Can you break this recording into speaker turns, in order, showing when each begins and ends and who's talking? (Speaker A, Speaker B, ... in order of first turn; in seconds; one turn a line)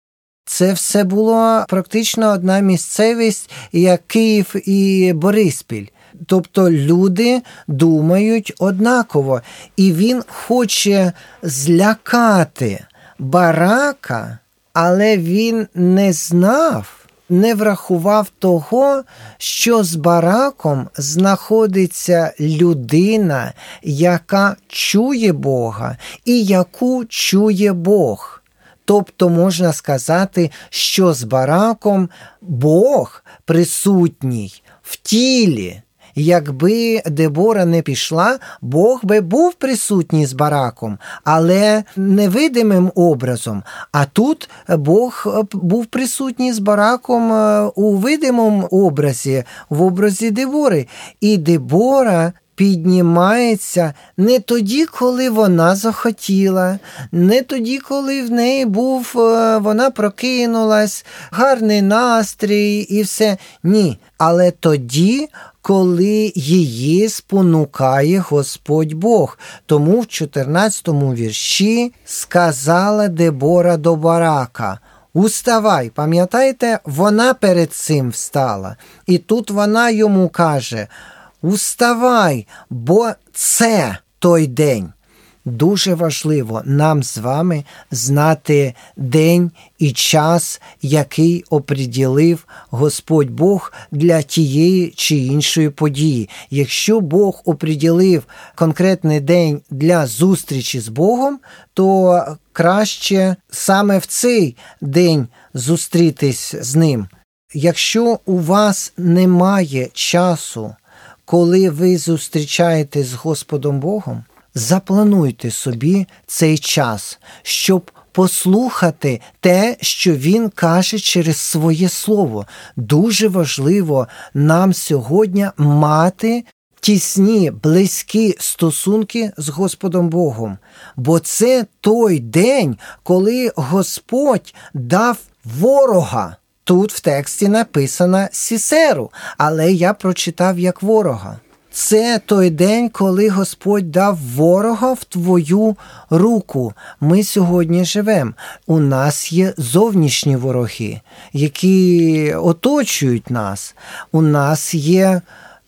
Speaker A: 0.5-80.9
Speaker A: 81.4-84.9
Speaker A: 85.4-155.2